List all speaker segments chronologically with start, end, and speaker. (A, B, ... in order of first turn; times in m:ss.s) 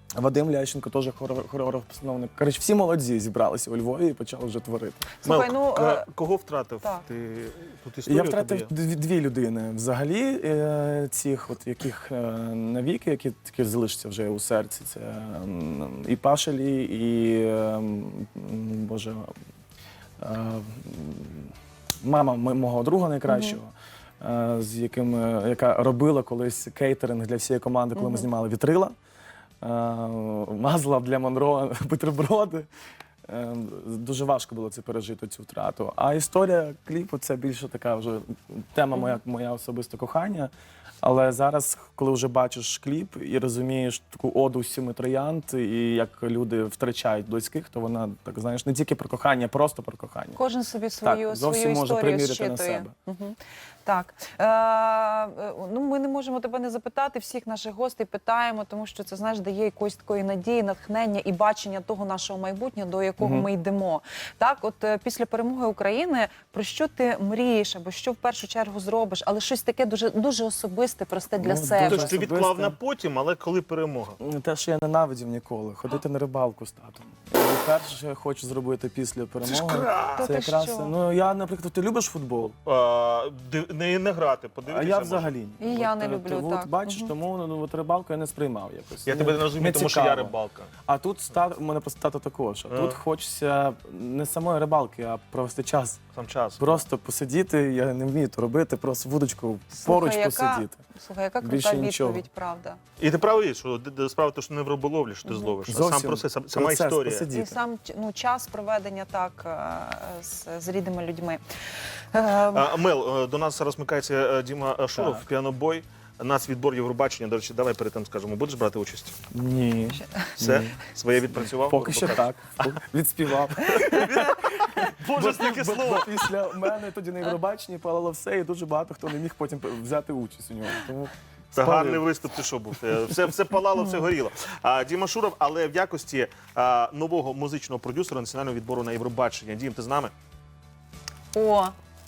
0:00.2-0:05.1 A
0:05.2-0:06.1 B
0:05.2-0:08.7 C
0:08.0-0:19.3 A
0:20.2-0:21.5 A
0:22.0-0:28.9 A
0:23.3-0:23.6 B
0:27.9-0:28.3 B
0:29.6-0:32.7 A
0:33.3-0:40.5 A
0:41.0-0:50.4 A
0:50.3-1:12.1 B
0:51.0-0:52.9 A
1:03.2-1:03.5 A
1:11.4-1:12.8 A
1:11.8-1:14.2 C
1:14.2-1:22.6 A
1:19.4-1:20.2 C
1:20.2-1:20.9 B
1:22.6-1:25.3 C
1:24.6-1:30.3 A
1:25.6-1:27.1 B
1:29.0-1:30.7 C
1:30.9-1:36.0 A
1:32.7-1:33.0 C
1:36.1-1:36.8 C
1:36.6-1:40.8 A
1:39.7-1:42.8 B
1:41.4-1:42.2 A
1:43.0-1:47.2 C
1:45.2-1:45.5 B
1:45.7-1:47.6 A
1:47.3-1:51.4 B
1:52.1-1:52.6 B
1:52.5-1:59.2 C
1:54.9-1:55.2 A
1:59.3-2:04.4 A
2:00.0-2:00.2 B
2:00.4-2:02.7 C
2:03.6-2:06.3 C
2:05.0-2:12.0 A
2:11.5-2:20.1 C
2:21.3-2:21.7 B